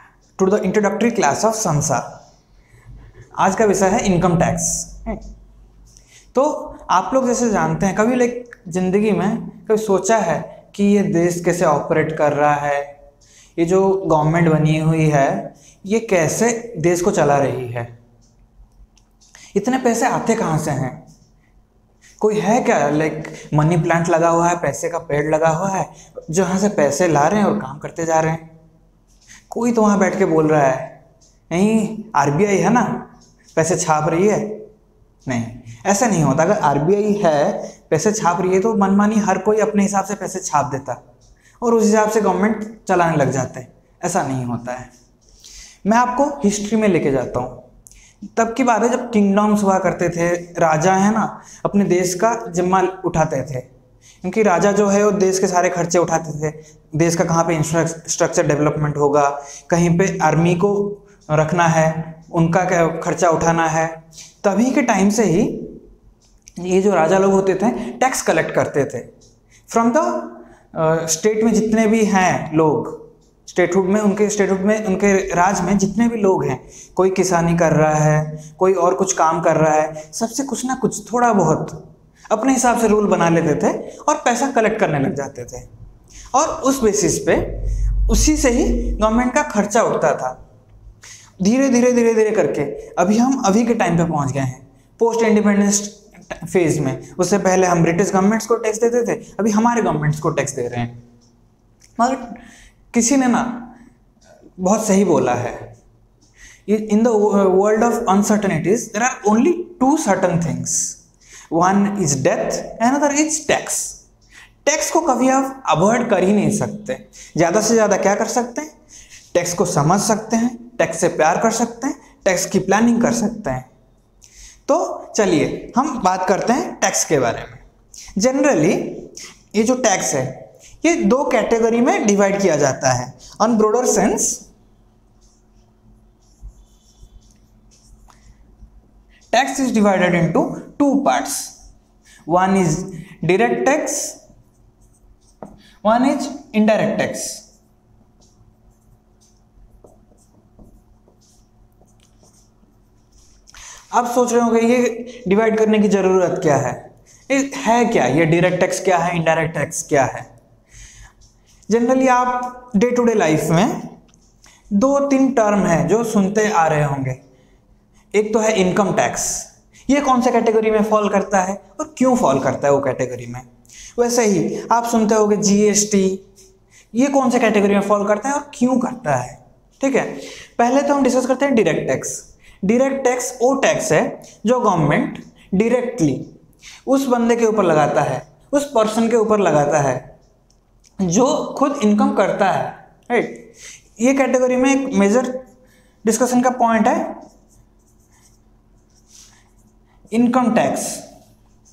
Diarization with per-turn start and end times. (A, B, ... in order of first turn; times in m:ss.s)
0:00.4-0:02.1 A
0:03.4-0:05.2 A
0:06.3-0:12.9 A
0:13.6-0:17.9 A
0:19.5-0:21.0 A
0:22.2-0:28.5 A
0:29.5-0:31.0 A
0:31.5-0:34.6 A
0:35.3-0:41.0 A
0:41.6-0:44.9 A
0:45.8-0:47.7 A
0:48.4-0:53.7 A
0:54.2-1:05.8 A
1:06.6-1:09.1 A
1:09.7-1:25.7 A
1:26.3-1:30.4 A
1:31.4-1:41.0 A
1:42.0-1:42.4 A
1:42.9-1:43.7 A
1:44.6-1:45.7 A
1:46.7-1:51.0 A
1:51.5-1:54.0 A
1:54.6-1:58.7 A
1:59.3-2:03.7 A
2:04.7-2:07.6 A
2:08.2-2:14.4 A
2:19.3-2:21.6 A
2:22.3-2:24.2 A
2:25.8-2:27.4 A
2:33.9-2:40.3 A
2:41.7-2:44.0 A
2:44.7-2:47.2 A
2:48.1-2:56.2 A
2:56.9-3:06.3 A
3:06.9-3:10.0 A
3:11.0-3:15.4 A
3:16.0-3:17.2 A
3:20.1-3:21.0 A